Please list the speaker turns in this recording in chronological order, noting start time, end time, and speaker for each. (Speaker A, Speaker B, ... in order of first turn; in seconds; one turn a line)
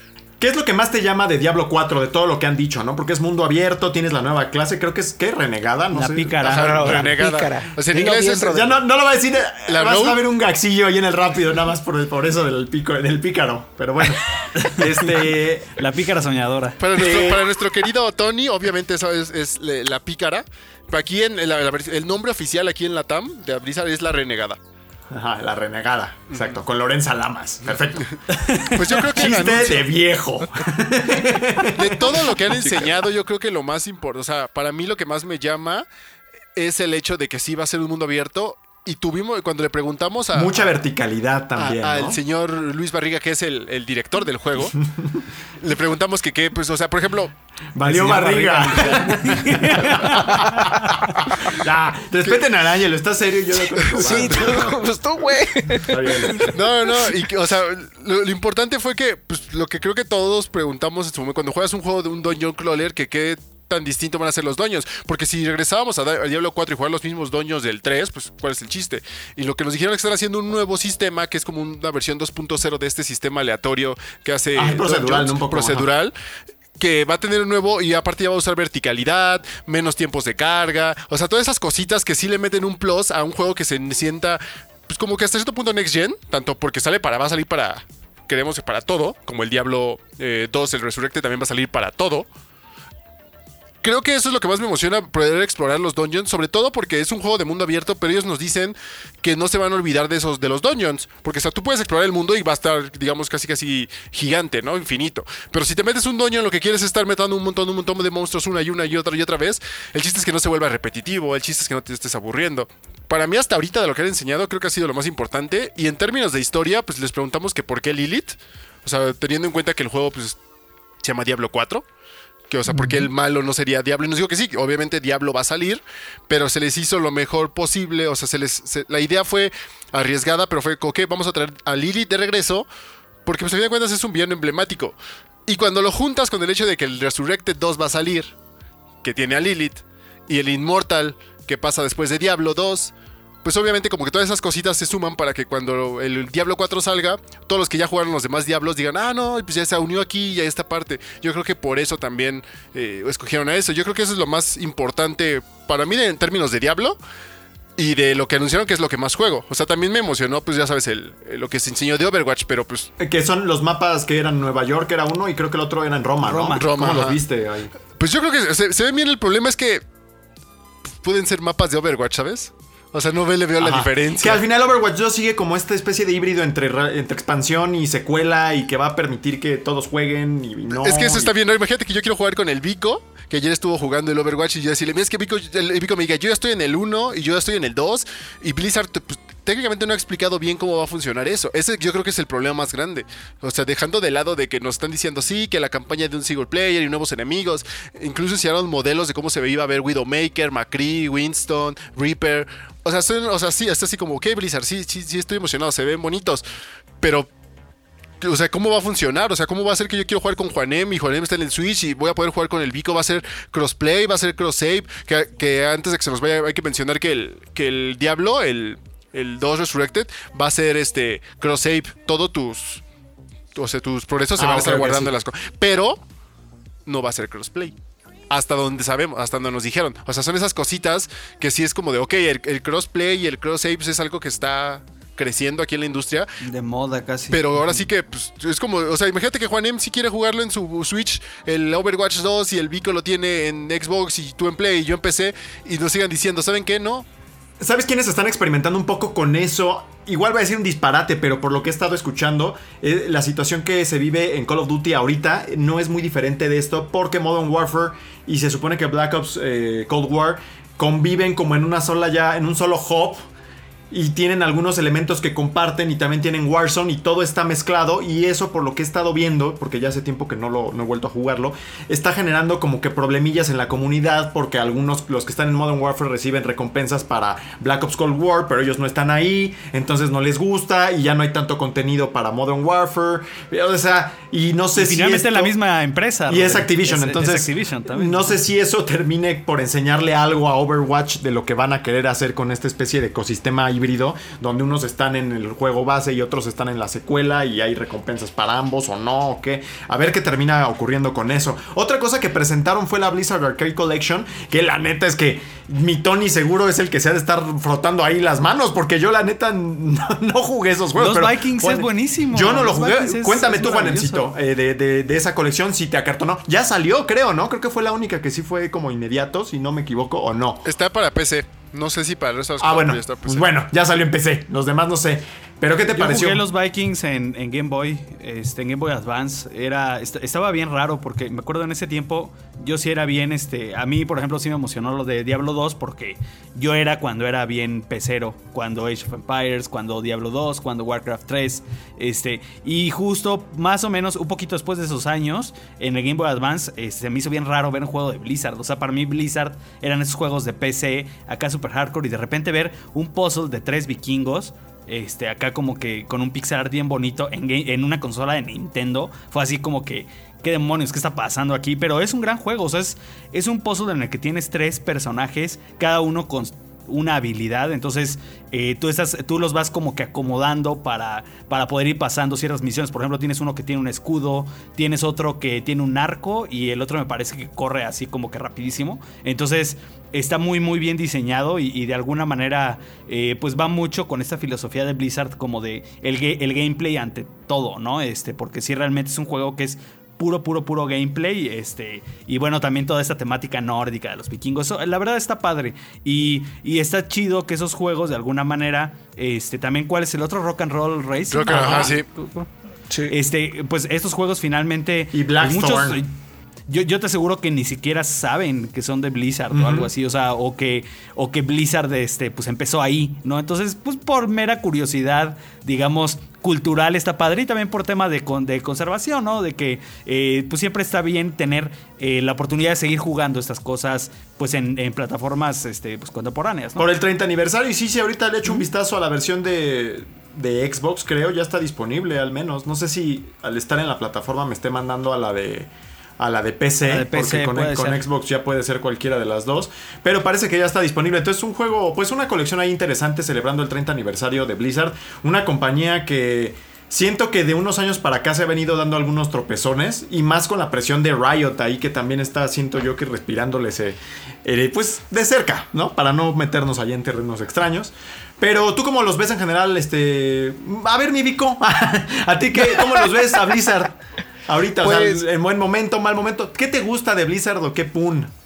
Speaker A: 0.4-7.1
Speaker B: 5.9-7.0
Speaker C: 6.5-8.7
Speaker D: 6.5-8.6
Speaker A: 8.5-15.8
Speaker D: 9.7-10.2
Speaker B: 14.6-15.2
Speaker B: 15.8-16.8
Speaker D: 16.8-24.6
Speaker A: 17.0-17.5
Speaker A: 25.1-28.1
Speaker D: 28.7-29.9
Speaker A: 29.0-33.0
Speaker D: 31.6-35.9
Speaker D: 36.6-40.7
Speaker A: 40.3-42.2
Speaker D: 41.6-44.8
Speaker A: 45.0-45.2
Speaker D: 45.6-47.3
Speaker A: 47.8-54.8
Speaker D: 47.9-48.2
Speaker C: 48.5-49.1
Speaker B: 49.2-49.8
Speaker C: 54.0-56.5
Speaker D: 54.0-54.5
Speaker A: 55.8-56.5
Speaker D: 56.5-76.1
Speaker A: 74.5-75.9
Speaker D: 76.8-92.3
Speaker D: 93.8-120.4
Speaker D: 121.0-121.8
Speaker D: 122.5-132.7
Speaker D: 133.2-138.3
Speaker D: 139.0-157.0
Speaker D: 157.8-162.9
Speaker A: 163.0-167.7
Speaker B: 166.2-166.7
Speaker D: 166.5-167.2
Speaker D: 168.0-169.8
Speaker D: 171.0-174.4
Speaker A: 173.6-181.3
Speaker D: 180.7-206.4
Speaker D: 207.0-207.3
Speaker D: 208.2-222.8
Speaker D: 223.5-226.0
Speaker A: 224.4-225.1
Speaker D: 226.9-227.8
Speaker D: 228.3-236.3
Speaker B: 236.4-237.9
Speaker D: 237.3-247.1
Speaker A: 247.6-263.2
Speaker A: 263.9-285.6
Speaker B: 284.7-288.4
Speaker A: 286.3-320.6
Speaker B: 311.0-314.3
Speaker D: 320.6-323.5
Speaker A: 322.6-326.4
Speaker B: 325.9-402.5
Speaker D: 401.3-402.1
Speaker C: 402.9-403.1
Speaker B: 403.1-406.1
Speaker A: 405.1-406.0
Speaker B: 406.7-426.9
Speaker A: 409.5-409.9
Speaker A: 426.8-468.3
Speaker B: 436.8-438.0
Speaker C: 464.8-465.2